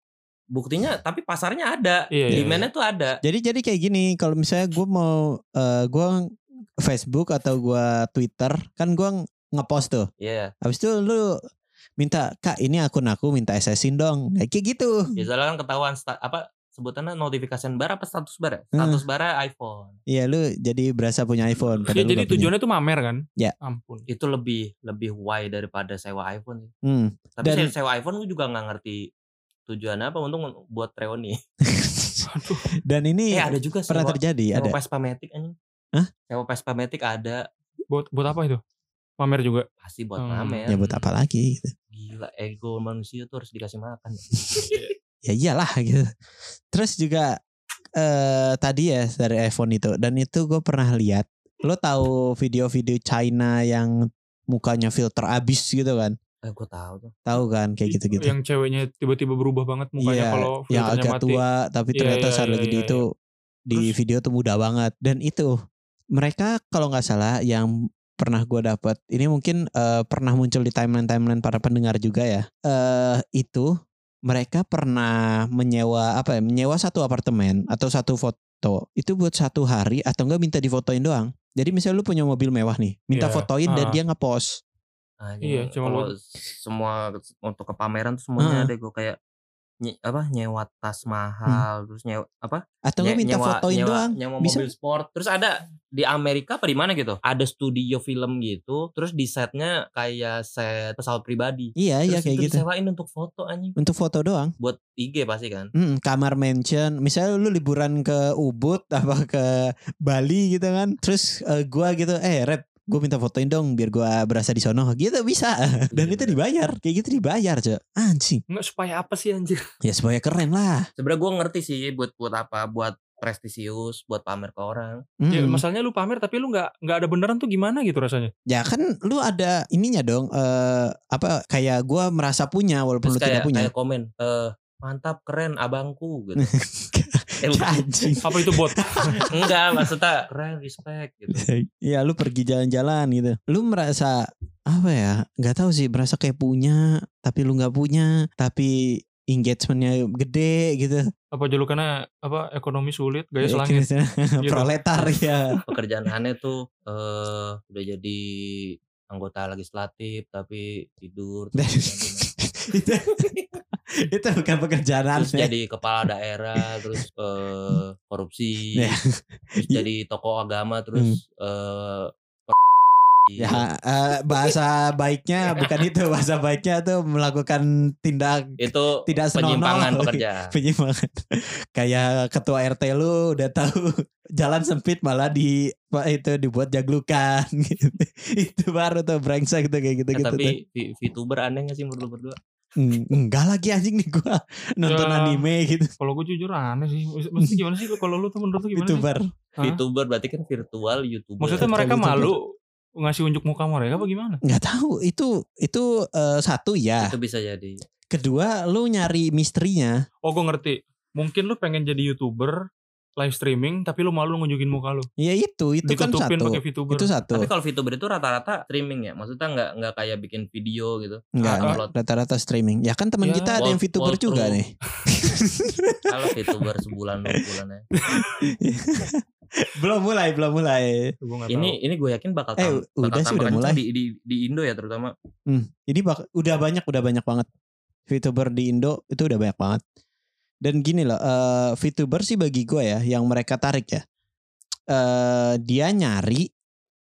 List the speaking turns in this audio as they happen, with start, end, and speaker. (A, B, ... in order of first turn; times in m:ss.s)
0:00.5-0:03.2 A
0:02.1-0:02.5 B
0:02.3-0:02.7 C
0:03.2-0:10.1 C
0:10.2-0:10.5 A
0:10.6-0:11.4 C
0:12.0-0:15.2 C
0:15.2-0:20.0 A
0:18.8-0:19.0 C
0:20.1-0:22.5 C
0:21.6-0:21.9 A
0:21.9-0:24.0 B
0:24.1-0:26.7 A
0:26.8-0:27.7 C
0:27.4-0:29.1 A
0:29.7-0:31.4 A
0:31.6-0:34.8 C
0:32.3-0:32.7 B
0:33.3-0:35.6 A
0:36.3-0:37.5 A
0:37.9-0:38.6 B
0:39.2-0:39.7 B
0:39.8-0:41.0 A
0:40.2-0:40.6 B
0:40.7-0:41.7 C
0:41.9-0:44.8 A
0:44.6-0:44.9 B
0:45.2-0:46.1 C
0:46.7-0:47.4 C
0:48.0-0:54.0 C
0:54.5-0:56.2 C
0:56.4-0:57.2 A
0:57.3-0:58.4 C
0:57.9-1:01.4 B
1:00.0-1:03.1 C
1:02.0-1:03.0 B
1:03.7-1:05.6 C
1:06.1-1:13.7 C
1:14.3-1:24.6 C
1:23.1-1:24.0 B
1:25.2-1:29.2 A
1:25.4-1:26.1 B
1:28.4-1:28.7 C
1:29.8-1:43.8 A
1:32.9-1:34.7 C
1:41.8-1:42.6 C
1:43.8-1:44.5 C
1:44.6-1:45.7 A
1:45.8-1:58.4 C
1:55.9-1:56.4 A
1:58.5-1:59.6 B
1:59.8-2:00.9 C
2:01.0-2:05.0 A
2:05.2-2:05.6 C
2:05.3-2:08.3 B
2:08.5-2:13.7 C
2:13.0-2:16.5 A
2:16.4-2:19.9 C
2:17.4-2:18.2 A
2:18.2-2:19.2 B
2:19.3-2:21.5 A
2:21.4-2:31.0 C
2:31.3-2:33.9 B
2:33.4-2:35.6 C
2:34.4-2:35.2 B
2:35.7-2:42.3 A
2:41.6-2:43.3 C
2:43.1-2:43.5 A
2:44.0-2:45.5 C
2:45.2-2:49.0 A
2:48.8-2:49.9 C
2:49.6-2:52.6 A
2:51.0-2:51.2 C
2:53.3-2:53.7 A
2:53.4-3:10.5 C
2:58.6-3:00.5 A
3:10.1-3:12.4 A
3:12.8-3:15.9 C
3:14.9-3:15.5 B
3:16.0-3:19.8 B
3:17.4-3:17.9 C
3:18.7-3:19.3 C
3:19.6-3:21.7 A
3:21.4-3:24.4 B
3:21.6-3:22.4 C
3:24.4-3:27.2 C
3:27.0-3:27.8 A
3:28.1-3:30.0 C
3:30.2-3:32.6 B
3:33.2-3:35.1 B
3:35.2-3:37.5 C
3:35.9-3:37.1 B
3:37.3-3:41.9 A
3:41.4-3:46.7 C
3:41.4-3:41.8 B
3:43.2-3:43.6 B
3:43.6-3:44.6 A
3:46.1-3:47.8 A
3:48.0-3:48.4 B
3:48.1-3:51.1 C
3:51.2-3:51.8 B
3:51.5-3:55.1 A
3:52.6-3:53.8 C
3:55.5-3:57.5 C
3:58.1-3:59.8 C
4:00.6-4:04.0 C
4:04.9-4:06.5 C